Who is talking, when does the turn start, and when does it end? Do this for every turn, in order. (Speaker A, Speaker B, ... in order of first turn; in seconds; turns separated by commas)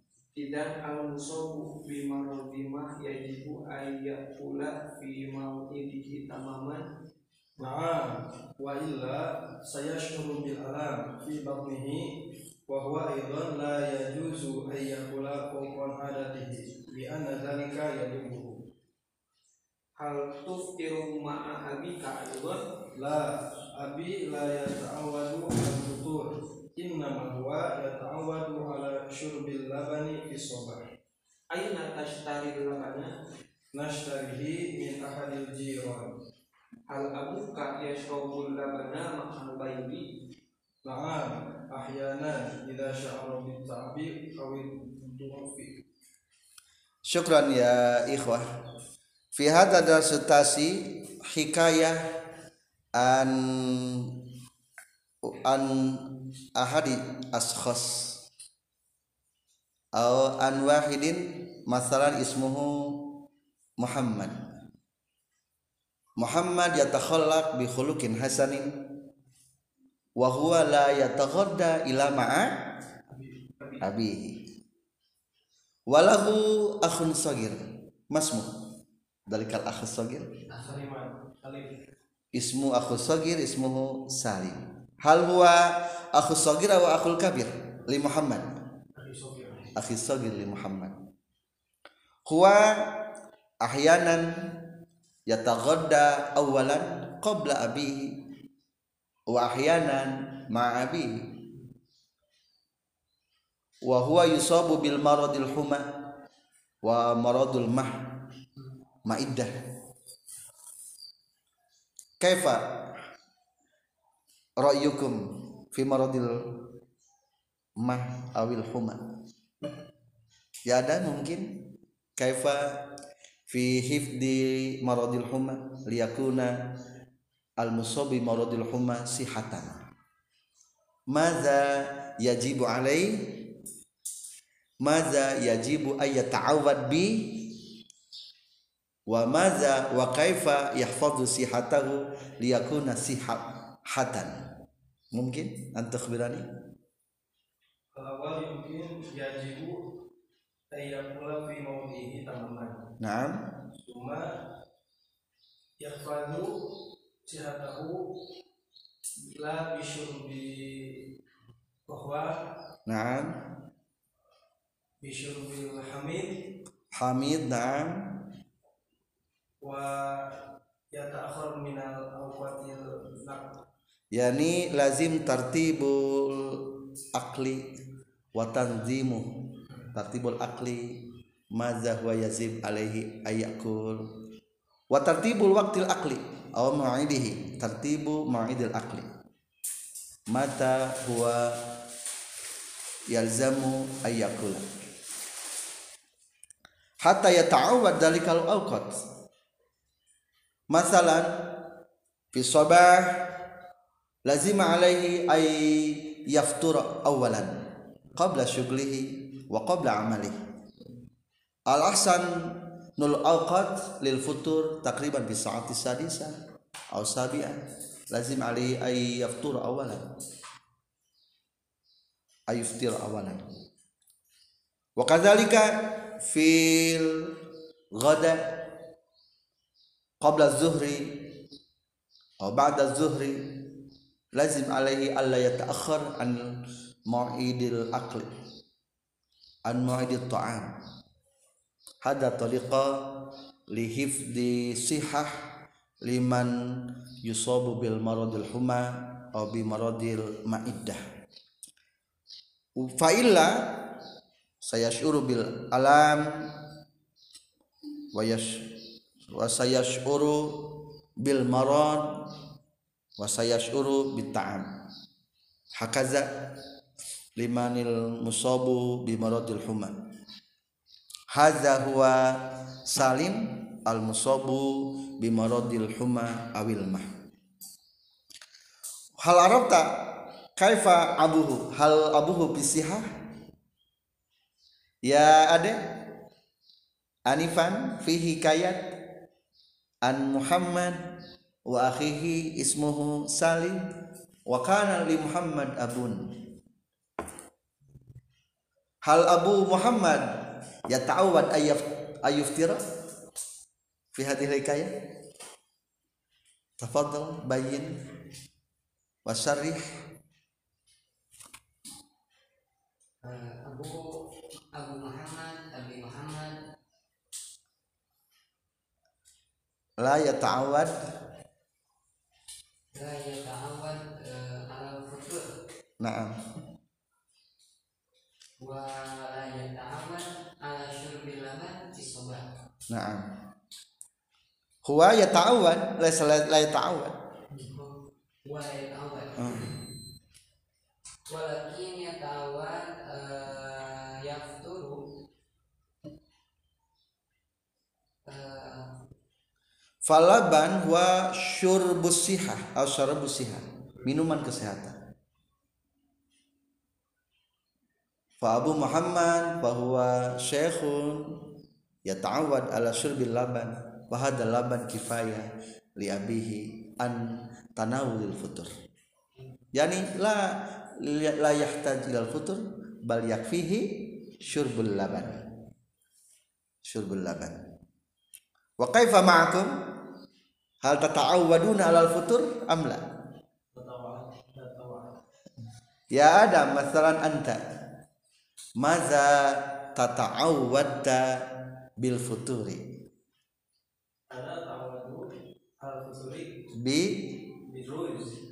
Speaker A: 0.4-6.8, Speaker B: 7.6-12.1, Speaker B: 12.7-18.6, Speaker A: 20.0-22.6, Speaker B: 22.9-30.8, Speaker A: 31.5-33.1, Speaker B: 33.7-36.1, Speaker A: 36.9-40.0, Speaker B: 40.8-45.7, Speaker C: 47.1-48.4, Speaker C: 49.4-52.0, Speaker C: 53.0-54.1, Speaker C: 55.3-58.1, Speaker C: 60.0-63.0, Speaker C: 63.8-64.4, Speaker C: 66.2-68.7, Speaker C: 70.2-72.5, Speaker B: 73.1-73.5, Speaker C: 73.8-74.4, Speaker C: 75.9-77.6, Speaker C: 78.1-78.5, Speaker C: 79.3-80.3, Speaker B: 80.5-81.7, Speaker C: 82.3-88.6, Speaker B: 89.0-89.7, Speaker C: 89.8-91.0, Speaker C: 92.3-92.8, Speaker C: 93.6-94.3, Speaker C: 95.3-98.2, Speaker C: 99.3-101.2, Speaker C: 103.8-105.9, Speaker C: 106.8-108.0, Speaker C: 109.1-109.5, Speaker C: 112.2-112.6, Speaker C: 114.6-116.5, Speaker C: 117.8-119.0, Speaker C: 120.7-121.6, Speaker C: 122.2-122.8, Speaker C: 123.5-126.6, Speaker C: 127.6-129.8, Speaker C: 131.1-133.2, Speaker C: 134.8-137.5, Speaker C: 139.1-144.4, Speaker C: 145.1-146.4, Speaker B: 147.9-149.8, Speaker B: 150.7-152.8, Speaker C: 153.0-153.4, Speaker B: 153.9-154.3, Speaker B: 155.8-156.6, Speaker B: 157.3-158.0, Speaker B: 159.2-161.0, Speaker B: 161.9-162.3, Speaker C: 162.8-163.3, Speaker B: 165.0-166.3, Speaker C: 166.9-168.0, Speaker B: 169.6-170.2, Speaker B: 170.9-173.4, Speaker C: 174.1-176.6, Speaker C: 177.1-177.7, Speaker C: 178.3-179.3, Speaker C: 179.9-180.9, Speaker C: 181.5-184.0, Speaker C: 184.9-189.1, Speaker C: 190.3-191.5, Speaker C: 193.1-194.7, Speaker C: 197.0-198.9, Speaker C: 200.7-201.3, Speaker C: 202.3-203.1, Speaker C: 204.3-207.6, Speaker C: 208.2-210.4, Speaker C: 211.7-216.3, Speaker C: 216.9-217.6, Speaker C: 218.1-220.1, Speaker C: 222.5-223.4, Speaker C: 225.0-227.3, Speaker C: 228.0-228.5, Speaker C: 230.2-231.2, Speaker C: 232.4-233.4, Speaker C: 234.3-236.5, Speaker C: 237.1-238.3, Speaker C: 239.7-240.7, Speaker C: 242.0-245.3, Speaker C: 246.0-246.5, Speaker C: 247.2-251.0, Speaker C: 252.8-253.7, Speaker C: 254.6-256.4, Speaker C: 258.1-258.6, Speaker C: 259.3-262.1, Speaker C: 263.2-264.7, Speaker C: 265.8-266.3, Speaker C: 267.4-269.9, Speaker C: 271.3-277.1, Speaker C: 279.2-279.9, Speaker C: 280.6-283.1, Speaker C: 285.1-285.8, Speaker C: 287.3-288.8, Speaker C: 290.1-291.0, Speaker C: 291.7-293.8, Speaker C: 294.5-296.3, Speaker C: 299.1-300.3, Speaker C: 300.9-302.8, Speaker C: 304.1-304.9, Speaker C: 306.8-307.9, Speaker C: 309.3-309.9, Speaker D: 313.2-314.1, Speaker D: 314.7-316.6, Speaker C: 320.0-320.9, Speaker D: 322.9-325.4, Speaker C: 326.0-326.3, Speaker D: 328.6-332.4, Speaker C: 332.9-333.3, Speaker C: 334.8-337.1, Speaker D: 337.5-339.7, Speaker C: 339.4-339.7, Speaker D: 341.3-345.0, Speaker D: 348.3-348.9, Speaker C: 350.1-355.0, Speaker C: 358.4-361.3, Speaker C: 362.1-368.7, Speaker C: 369.7-375.4, Speaker C: 376.9-377.6, Speaker C: 378.8-379.7, Speaker C: 380.8-383.0, Speaker B: 383.7-385.1, Speaker C: 386.1-387.6, Speaker C: 388.8-391.3, Speaker C: 392.0-392.8, Speaker B: 394.3-395.3, Speaker B: 395.8-396.5, Speaker C: 396.7-397.4, Speaker B: 397.7-398.3